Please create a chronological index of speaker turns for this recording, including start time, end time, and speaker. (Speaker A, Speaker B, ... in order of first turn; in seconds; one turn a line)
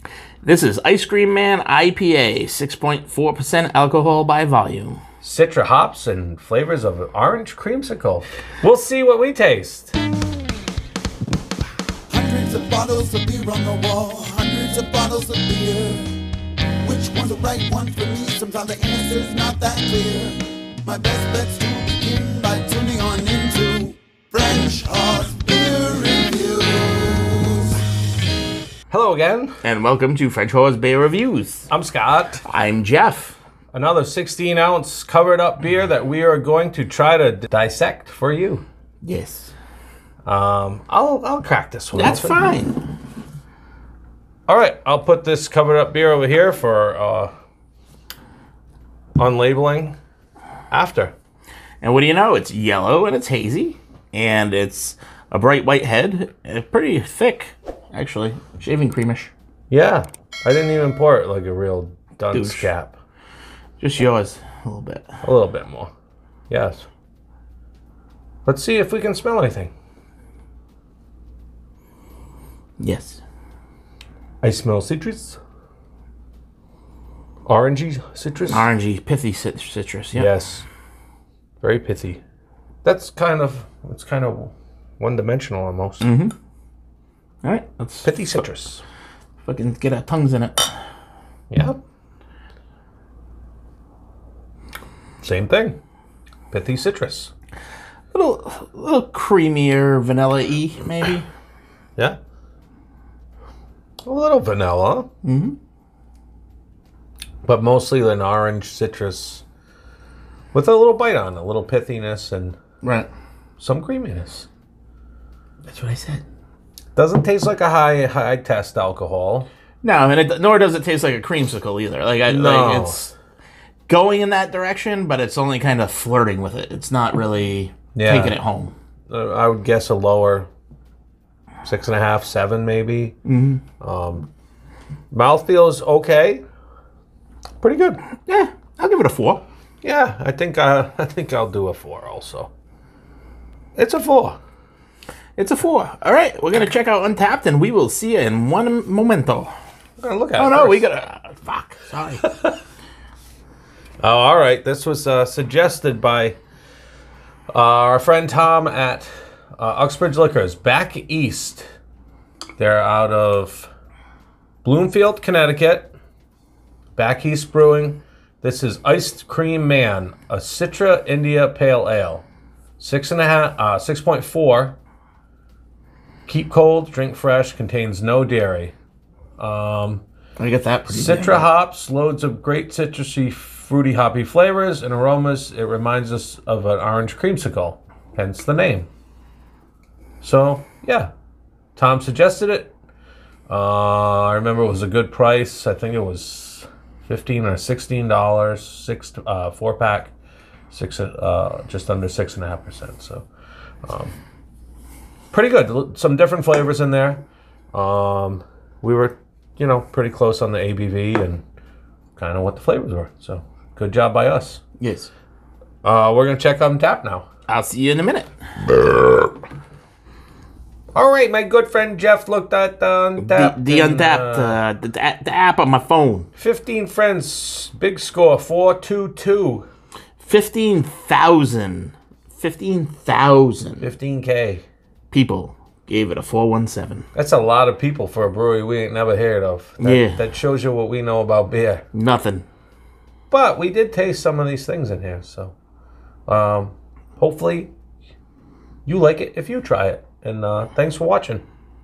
Speaker A: 0.4-5.0
Speaker B: 5.2-10.0
Speaker C: 12.1-16.1
Speaker C: 16.8-27.8
Speaker B: 28.9-29.5
Speaker A: 29.6-31.7
Speaker B: 31.7-32.4
Speaker A: 32.4-33.4
Speaker B: 33.7-38.6
Speaker A: 39.0-39.5
Speaker B: 40.2-42.4
Speaker A: 41.9-42.8
Speaker B: 44.5-47.3
Speaker B: 49.2-50.0
Speaker B: 50.7-51.1
Speaker A: 51.8-59.3
Speaker B: 59.7-63.0
Speaker A: 62.3-62.7
Speaker A: 63.8-65.2
Speaker B: 65.2-65.9
Speaker B: 66.5-66.9
Speaker B: 68.5-69.7
Speaker A: 72.8-73.2
Speaker B: 74.4-75.4
Speaker B: 77.5-78.7
Speaker A: 78.5-80.3
Speaker B: 80.1-80.7
Speaker B: 81.6-82.2
Speaker B: 82.8-86.1
Speaker A: 86.0-86.3
Speaker A: 87.4-88.4
Speaker B: 88.0-88.8
Speaker A: 89.4-90.8
Speaker B: 91.5-91.8
Speaker B: 95.2-95.8
Speaker B: 96.5-97.3
Speaker A: 98.1-101.2
Speaker B: 104.0-105.1
Speaker A: 105.2-105.6
Speaker B: 107.4-109.4
Speaker B: 110.5-112.6
Speaker A: 112.8-113.1
Speaker B: 113.6-114.5
Speaker A: 115.6-116.2
Speaker B: 116.9-119.5
Speaker A: 119.8-123.1
Speaker B: 122.3-123.1
Speaker A: 123.9-128.7
Speaker B: 127.9-128.3
Speaker B: 129.1-130.5
Speaker B: 131.6-133.2
Speaker A: 133.2-133.6
Speaker B: 133.8-134.3
Speaker B: 135.1-136.4
Speaker B: 137.6-138.0
Speaker A: 138.2-139.4
Speaker B: 139.8-142.5
Speaker B: 143.8-144.4
Speaker A: 145.3-149.5
Speaker B: 150.0-150.8
Speaker A: 150.4-152.2
Speaker B: 152.2-152.5
Speaker B: 154.0-156.4
Speaker B: 157.5-161.7
Speaker B: 162.6-163.7
Speaker B: 164.6-165.9
Speaker B: 166.9-172.3
Speaker B: 172.8-174.8
Speaker B: 176.3-178.7
Speaker B: 179.4-180.0
Speaker A: 180.4-181.5
Speaker B: 180.9-188.9
Speaker B: 190.2-191.1
Speaker B: 191.8-192.7
Speaker B: 193.5-200.1
Speaker B: 200.7-203.3
Speaker B: 203.8-204.2
Speaker B: 205.3-211.4
Speaker B: 212.2-214.6
Speaker A: 214.8-215.1
Speaker B: 215.8-217.2
Speaker A: 217.5-218.3
Speaker B: 218.6-219.3
Speaker B: 220.9-224.6
Speaker A: 223.2-226.3
Speaker B: 226.3-229.7
Speaker A: 230.2-233.9
Speaker B: 233.8-234.7
Speaker A: 235.1-237.1
Speaker B: 237.1-241.8
Speaker A: 239.8-240.3
Speaker A: 241.9-242.4
Speaker B: 243.3-245.6
Speaker B: 246.3-247.7
Speaker B: 248.8-251.4